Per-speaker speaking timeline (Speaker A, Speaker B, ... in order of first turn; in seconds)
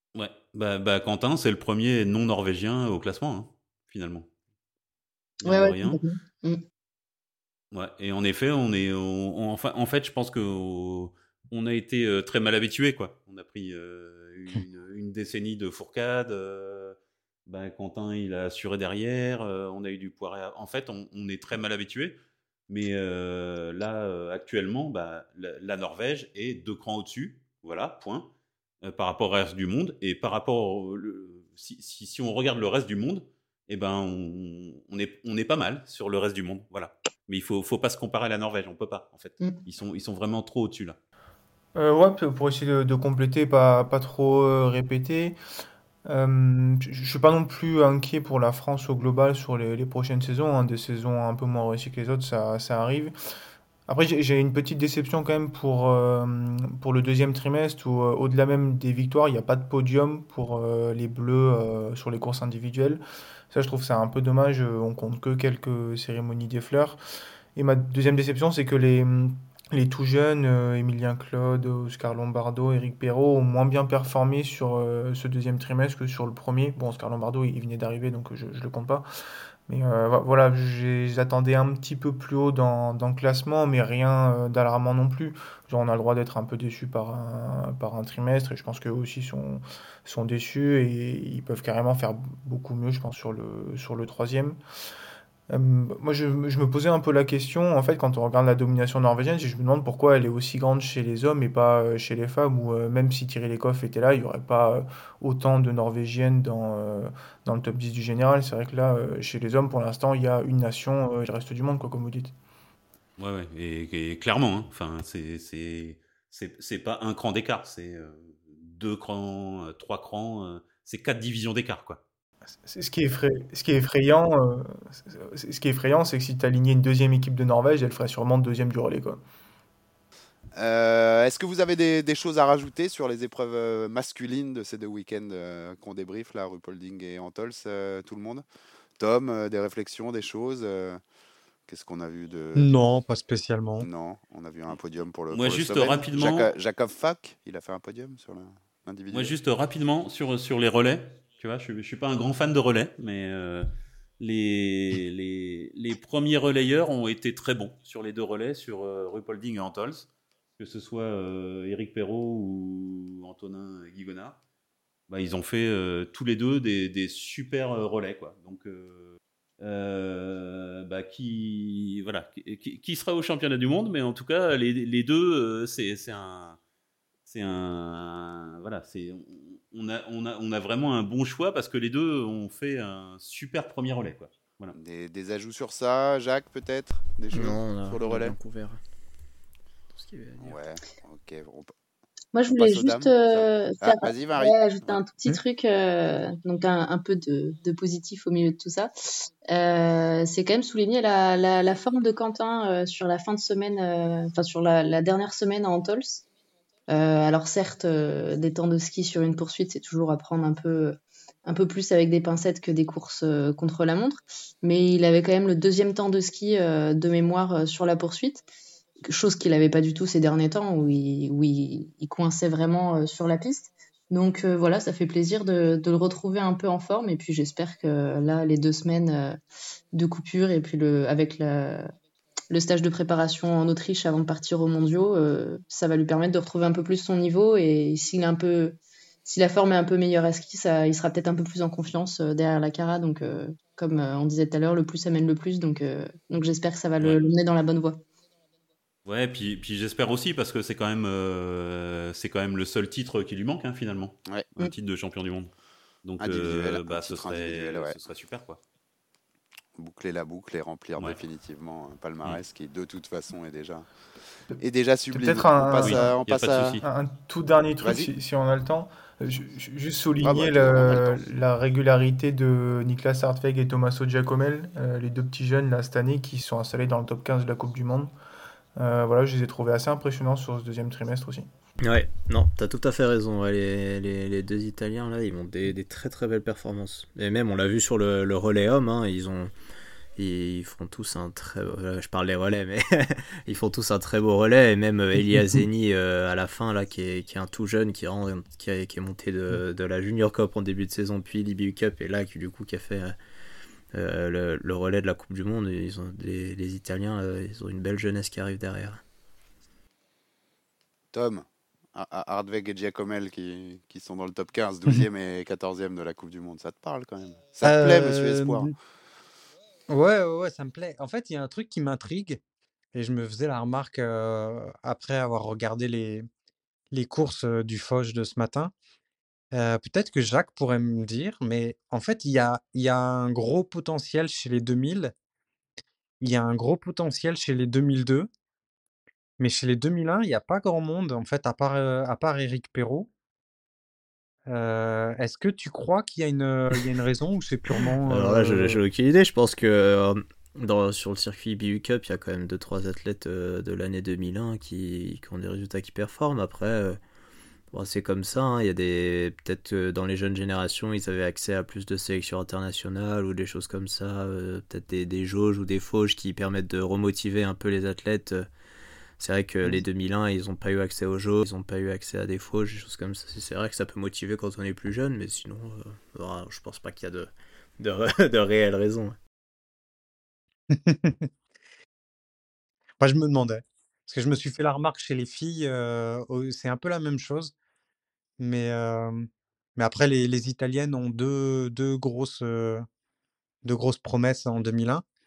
Speaker A: 0.1-4.3, 5.4-6.0, 7.7-22.1, 22.7-28.3, 28.8-41.0, 113.2-122.0, 145.3-146.5, 149.1-153.7, 154.2-160.1, 160.6-164.4, 165.1-176.6, 177.3-184.8, 249.0-255.5, 256.0-258.6, 265.8-266.8
Speaker B: 5.4-6.6, 192.3-206.2, 206.9-218.4, 219.0-229.4, 229.9-231.9, 232.5-248.0
Speaker C: 41.7-45.4, 46.0-53.1, 53.9-67.0, 67.5-79.0, 79.7-94.6, 95.5-112.3, 122.7-129.2, 265.1-266.1, 266.8-278.1, 278.8-281.5
Speaker D: 130.5-138.4, 139.0-141.0, 141.7-142.7, 143.8-149.3, 184.7-188.3, 190.4-191.7, 192.5-195.0, 256.2-257.9, 259.8-263.9, 264.6-266.8, 267.8-268.1, 270.2-271.2, 311.1-318.7
Speaker E: 142.6-143.9, 317.6-318.7, 319.9-322.4, 322.9-326.3, 326.9-328.7, 329.5-335.1, 336.2-338.3, 339.4-343.1, 344.5-348.9, 380.7-381.3, 383.0-387.5, 388.4-392.9, 393.6-395.0
Speaker F: 187.3-188.8, 189.9-190.6, 281.8-289.5, 290.1-303.1, 303.9-309.0, 348.1-357.0, 357.7-368.5, 369.2-379.2